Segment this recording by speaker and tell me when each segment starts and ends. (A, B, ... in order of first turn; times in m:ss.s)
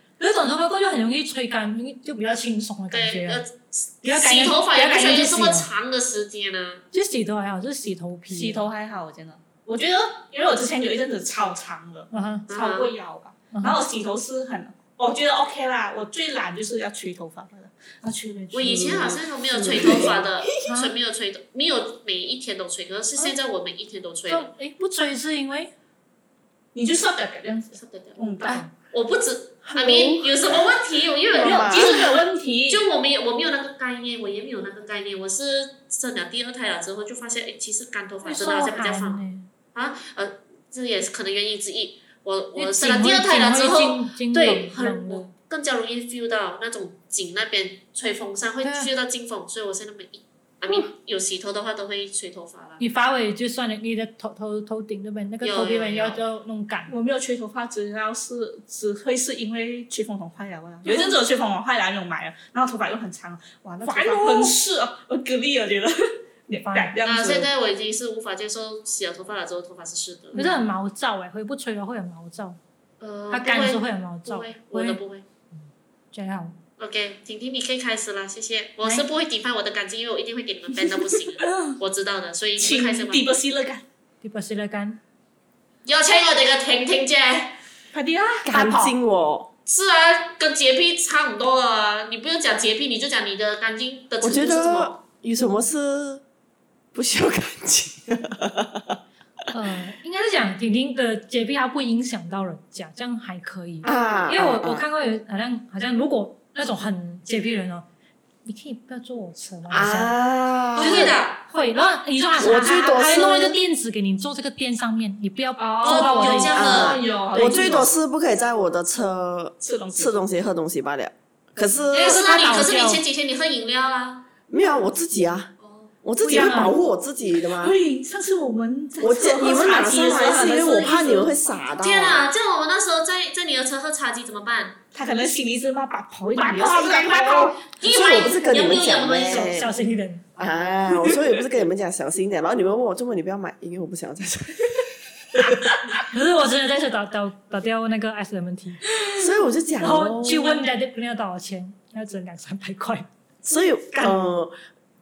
0:00.2-0:03.4 A
0:02.9-0:06.8 B
0:04.0-0:05.7 A
0:06.9-0:08.7 A
0:08.3-0:19.2 C
0:12.1-0:12.5 A
0:12.5-0:12.9 B
0:13.5-0:13.8 A
0:18.5-0:24.5 B
0:18.6-0:20.2 D
0:19.7-0:20.2 C
0:20.6-0:20.9 A
0:24.3-0:25.7 A
0:26.8-0:28.6 C
0:27.8-0:32.2 B
0:28.4-0:28.7 A
0:29.6-0:30.6 D
0:31.3-0:32.1 D
0:31.3-0:32.9 C
0:32.7-0:39.2 B
0:38.2-0:39.5 A
0:39.8-0:52.8 B
0:42.6-0:45.3 A
0:48.6-0:48.9 A
0:52.8-0:56.9 A
0:55.4-0:56.2 B
0:56.9-1:07.5 C
1:00.9-1:01.1 B
1:00.9-1:01.1 A
1:03.8-1:04.5 A
1:06.5-1:06.9 A
1:07.0-1:10.5 B
1:10.4-1:12.6 A
1:13.0-1:15.2 B
1:13.3-1:15.0 A
1:16.1-1:16.6 A
1:16.8-1:23.3 B
1:21.4-1:21.8 C
1:22.6-1:23.8 C
1:24.2-1:25.0 A
1:25.8-1:27.6 B
1:27.9-1:28.8 C
1:28.4-1:29.5 D
1:28.5-1:28.9 A
1:29.7-1:35.0 B
1:34.2-1:36.2 D
1:36.9-1:39.0 D
1:39.5-1:47.9 A
1:43.8-1:44.8 D
1:48.5-1:50.1 A
1:49.7-1:51.2 D
1:50.8-1:51.4 B
1:50.8-1:56.6 A
1:52.4-1:53.5 D
1:52.6-1:53.3 B
1:55.6-1:57.9 C
1:55.8-1:57.0 B
1:56.5-2:02.2 D
1:59.6-2:00.2 C
2:01.9-2:04.2 B
2:01.9-2:03.0 A
2:04.5-2:05.5 D
2:05.6-2:05.9 B
2:06.0-2:07.8 D
2:06.2-2:06.8 A
2:06.3-2:06.7 C
2:07.5-2:11.3 C
2:09.0-2:12.3 D
2:11.8-2:14.8 B
2:14.9-2:17.7 C
2:16.4-2:19.7 D
2:17.6-2:19.6 B
2:19.2-2:20.2 A
2:20.4-2:25.8 D
2:26.1-2:28.8 A
2:29.2-2:30.6 D
2:29.8-2:33.1 A
2:33.4-2:34.5 D